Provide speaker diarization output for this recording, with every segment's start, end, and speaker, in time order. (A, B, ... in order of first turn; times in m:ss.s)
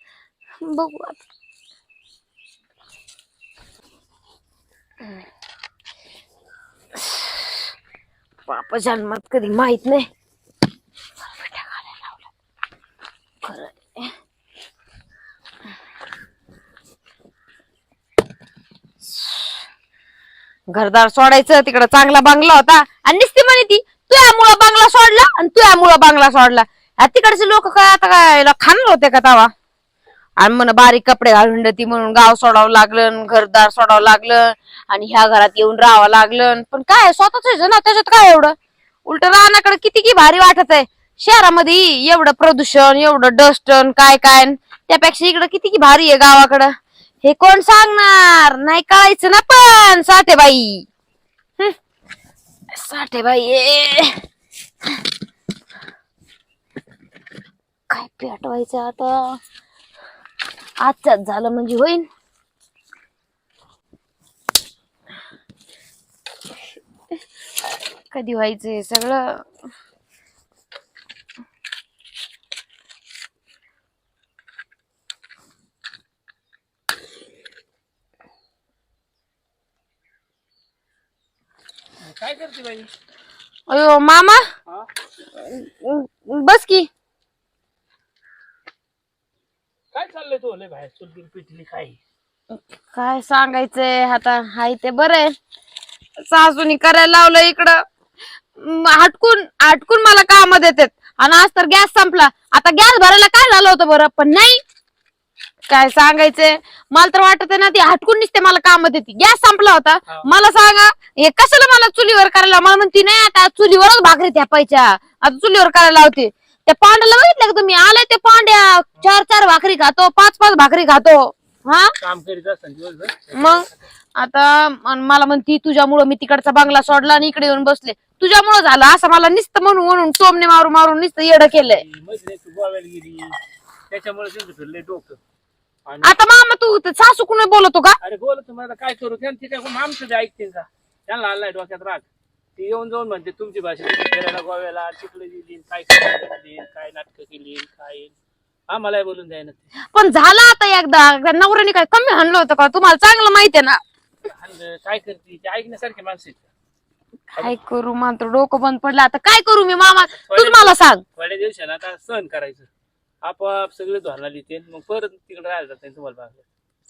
0:00.6-0:01.2 A
0:07.0-0:07.5 A
0:08.5-0:10.1 A
0:11.2-0:12.2 A
0:13.4-0:14.1 A
0:20.7-0:29.5 A
0:30.4-0:38.5 A
0:39.0-0:46.7 A
0:47.2-0:50.8 A
0:52.7-0:54.2 A
0:57.9-0:59.4 A
1:00.8-1:02.0 A
1:08.1-1:09.4 A
1:22.0-1:22.9 B
1:23.7-1:24.4 A
1:25.4-1:26.9 A
1:29.9-1:32.0 B
1:32.5-1:35.3 A
1:36.2-1:37.8 A
1:38.6-1:44.6 A
1:45.7-2:01.9 A
2:02.0-2:03.7 B
2:03.3-2:11.8 A
2:11.7-2:13.4 B
2:13.9-2:15.2 B
2:15.8-2:16.2 B
2:16.0-2:18.0 A
2:18.0-2:28.1 B
2:28.7-2:29.6 B
2:29.9-2:33.8 A
2:34.2-2:36.4 B
2:37.3-2:41.0 A
2:40.2-2:42.7 B
2:43.2-2:46.4 B